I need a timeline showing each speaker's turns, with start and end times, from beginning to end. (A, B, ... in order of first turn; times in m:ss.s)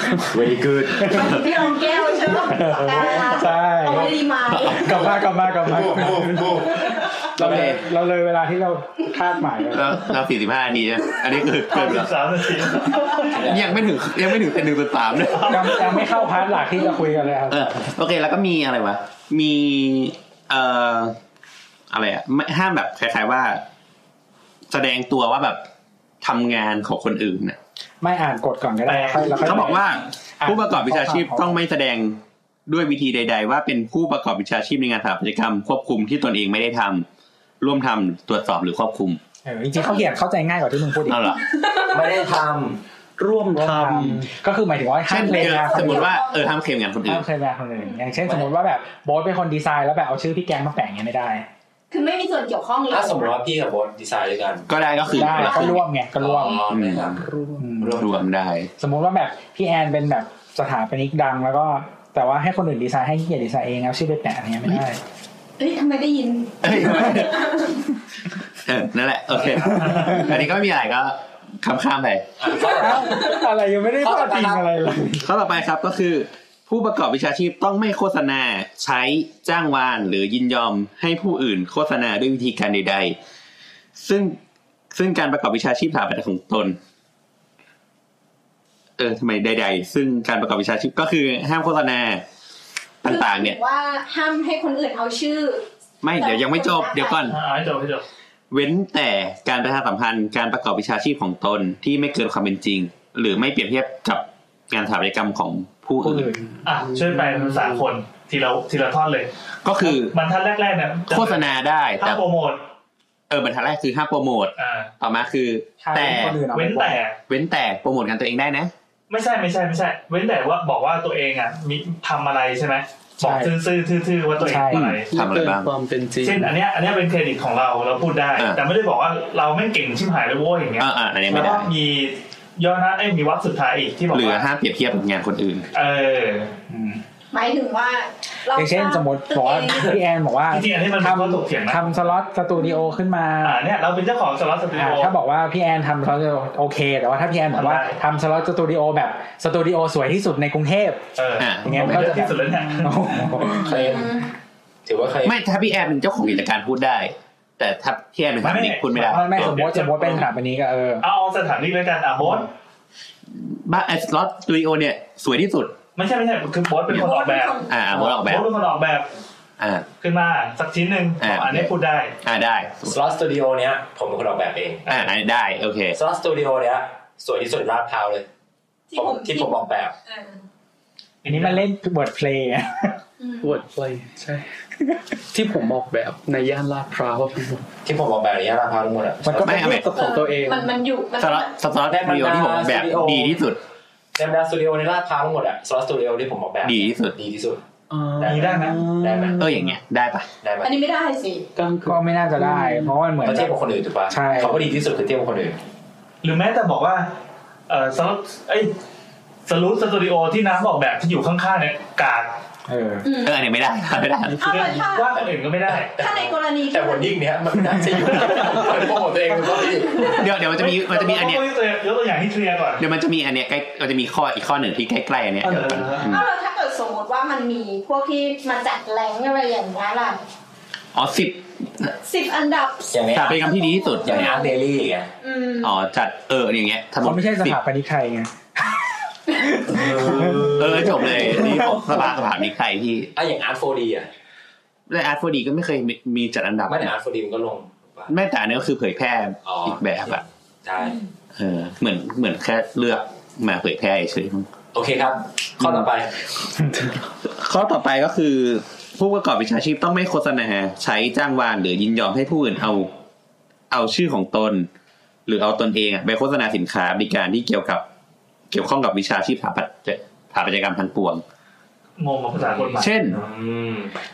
0:00.3-0:01.3 A
0:01.0-0:04.9 B
0:01.2-0:01.5 C
0:02.4-0:06.7 D
0:04.5-0:04.8 C
0:05.5-0:06.9 A
0:07.4-0:09.9 D
0:07.4-0:07.8 C
0:09.7-0:12.1 C
0:11.7-0:13.4 E
0:13.3-0:13.8 A
0:13.3-0:15.9 C
0:15.4-0:15.9 E
0:15.5-0:17.9 D
0:17.5-0:21.2 C
0:21.9-0:23.6 C
0:24.7-0:25.6 C
0:26.2-0:27.6 C
0:28.0-0:29.8 D
0:28.9-0:30.0 E
0:29.4-0:37.0 C
0:30.4-0:31.6 D
0:37.6-0:39.2 C
0:39.4-0:41.2 D
0:41.0-0:41.5 C
0:41.5-0:42.0 B
0:41.8-0:42.8 A
0:43.2-0:44.3 F
0:43.5-0:46.1 D
0:45.1-0:47.2 C
0:45.2-0:46.5 B
0:47.0-0:51.4 D
0:51.9-0:53.3 B
0:52.9-0:54.7 A
0:54.7-0:55.8 C
0:55.1-0:56.6 D
0:55.2-0:57.3 A
0:56.7-0:57.2 C
0:57.1-0:57.6 F
0:57.6-0:58.0 D
0:57.8-0:58.2 A
0:58.0-0:58.7 C
0:58.8-1:05.0 D
1:05.6-1:07.8 B
1:06.6-1:07.5 C
1:08.6-1:12.7 C
1:09.5-1:10.3 E
1:10.0-1:10.2 D
1:12.4-1:13.4 A
1:12.7-1:15.2 D
1:14.0-1:14.7 A
1:15.2-1:23.2 C
1:24.0-1:24.4 C
1:24.9-1:26.8 C
1:29.0-1:32.2 C
1:33.0-1:33.6 C
1:33.0-1:37.3 B
1:36.0-1:37.4 C
1:37.3-1:38.0 E
1:38.5-1:46.4 C
1:46.0-1:46.4 D
1:46.5-1:47.8 F
1:46.6-1:51.4 E
1:49.6-1:50.1 C
1:51.1-1:52.2 C
1:52.0-1:52.6 E
1:53.3-1:56.4 C
1:54.6-1:54.9 E
1:55.8-1:57.0 D
1:56.5-1:57.2 E
1:57.3-1:58.7 C
1:59.1-2:05.1 E
2:03.2-2:03.5 D
2:04.4-2:04.9 D
2:04.7-2:05.7 C
2:05.1-2:06.5 F
2:06.2-2:14.4 E
2:08.4-2:08.6 C
2:10.8-2:11.7 C
2:14.1-2:15.7 C
2:15.7-2:16.5 E
2:16.7-2:17.0 D
2:17.3-2:20.0 B
2:18.5-2:23.6 D
2:20.5-2:21.9 E
2:23.4-2:25.1 E
2:24.7-2:31.0 D
2:27.5-2:28.0 E
2:31.2-2:33.4 E
2:31.4-2:32.2 C
2:31.6-2:33.7 D
2:33.5-2:34.2 A
2:33.9-2:34.2 B
2:34.8-2:35.4 A
2:35.2-2:39.6 C
2:38.4-2:40.3 E
2:39.1-2:41.0 D
2:41.0-2:42.5 E
2:43.3-2:45.8 C
2:46.0-2:49.1 E
2:46.9-2:48.5 C
2:46.9-2:47.7 B
2:49.6-2:49.8 C
2:50.0-2:52.1 E
2:51.2-2:51.7 C
2:52.2-2:53.0 C
2:52.8-2:54.9 A
2:54.9-2:56.0 C
2:55.9-2:58.2 A
2:58.9-3:00.4 B
2:58.9-2:59.9 A
3:01.2-3:01.6 E
3:01.2-3:03.0 D
3:03.2-3:03.5 B
3:03.4-3:04.4 F
3:05.3-3:07.7 F
3:07.8-3:09.5 A
3:09.2-3:10.7 F
3:09.3-3:09.8 D
3:09.4-3:09.9 C
3:09.9-3:11.5 B
3:11.2-3:13.6 C
3:11.9-3:13.4 A
3:14.1-3:17.6 A
3:16.6-3:17.1 C
3:17.9-3:19.6 F
3:18.2-3:19.5 A
3:18.2-3:18.8 E
3:19.4-3:20.3 C
3:20.4-3:20.7 A
3:20.6-3:21.4 B
3:21.6-3:22.9 F
3:21.8-3:24.7 D
3:23.2-3:25.6 A
3:26.2-3:27.1 E
3:27.7-3:28.7 E
3:29.5-3:32.3 E
3:32.7-3:33.1 D
3:33.0-3:33.4 B
3:33.2-3:34.7 C
3:34.3-3:35.2 B
3:34.4-3:35.9 E
3:36.0-3:40.1 A
3:36.0-3:37.2 B
3:39.9-3:40.2 B
3:40.0-3:41.5 C
3:40.4-3:42.8 E
3:42.8-3:46.3 C
3:45.4-3:46.1 E
3:46.0-3:50.2 B
3:50.9-3:51.9 C
3:52.0-3:52.9 B
3:52.9-3:53.4 A
3:53.1-3:54.3 C
3:53.6-3:54.6 B
3:54.0-3:55.1 A
3:55.2-3:55.8 B
3:55.6-3:57.6 C
3:57.0-3:58.3 D
3:59.7-4:01.6 A
4:00.4-4:03.1 C
4:03.1-4:04.1 A
4:04.9-4:06.9 C
4:06.7-4:08.1 A
4:08.1-4:10.2 C
4:09.4-4:11.0 A
4:11.3-4:14.5 C
4:14.7-4:16.1 A
4:17.2-4:22.9 C
4:23.7-4:24.7 C
4:25.2-4:27.8 C
4:28.5-4:31.2 C
4:32.0-4:33.1 E
4:32.5-4:33.9 A
4:32.7-4:33.2 C